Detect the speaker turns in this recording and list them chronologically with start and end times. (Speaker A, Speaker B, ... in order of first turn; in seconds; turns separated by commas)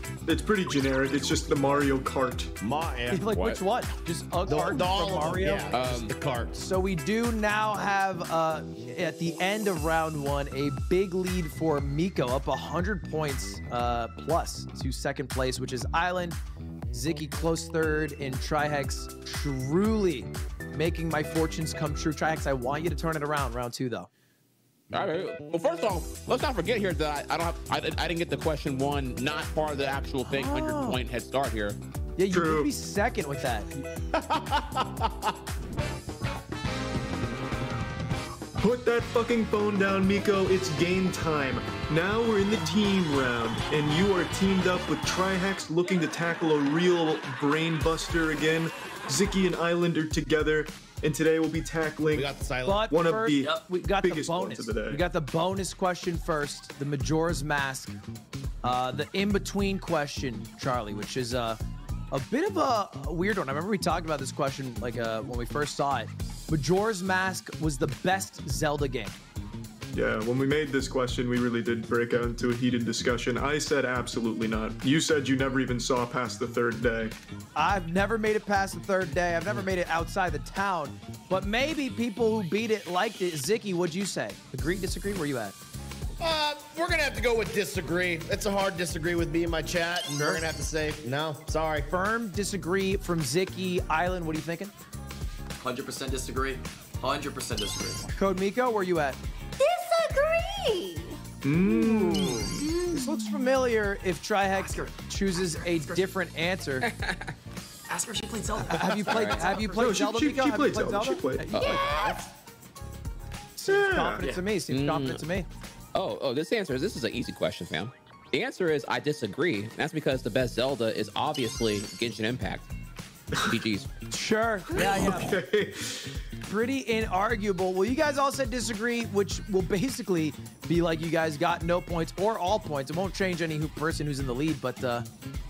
Speaker A: 0.2-2.5, Speaker B: 2.6-3.2, Speaker C: 3.1-5.7, Speaker D: 3.3-3.6, Speaker B: 4.5-6.6, Speaker D: 5.7-6.2, Speaker C: 6.5-16.4, Speaker C: 16.9-24.1, Speaker D: 24.9-31.8, Speaker C: 30.2-31.0, Speaker C: 32.2-33.7, Speaker A: 32.3-32.7, Speaker B: 34.1-35.1, Speaker A: 38.6-52.3, Speaker B: 52.1-52.9, Speaker C: 52.6-57.9, Speaker A: 52.9-55.0, Speaker E: 53.4-53.6, Speaker C: 58.6-61.6, Speaker C: 62.1-69.2, Speaker A: 69.9-77.2, Speaker C: 77.5-85.5, Speaker B: 86.2-91.9, Speaker C: 90.2-90.4, Speaker C: 91.9-94.7, Speaker E: 95.6-98.1, Speaker C: 98.1-99.2, Speaker F: 99.6-101.2, Speaker A: 101.4-102.7, Speaker C: 101.5-106.9, Speaker F: 102.6-103.5, Speaker E: 104.6-106.1, Speaker D: 106.8-107.3, Speaker E: 107.9-109.9, Speaker C: 108.7-112.2, Speaker D: 109.1-109.5, Speaker A: 109.8-111.5, Speaker D: 111.5-112.1, Speaker C: 113.6-115.5, Speaker A: 113.7-114.2, Speaker D: 114.7-115.2, Speaker D: 115.9-122.7, Speaker A: 123.3-123.6, Speaker D: 123.5-123.9, Speaker C: 124.1-125.4, Speaker A: 124.7-126.2, Speaker C: 126.4-135.1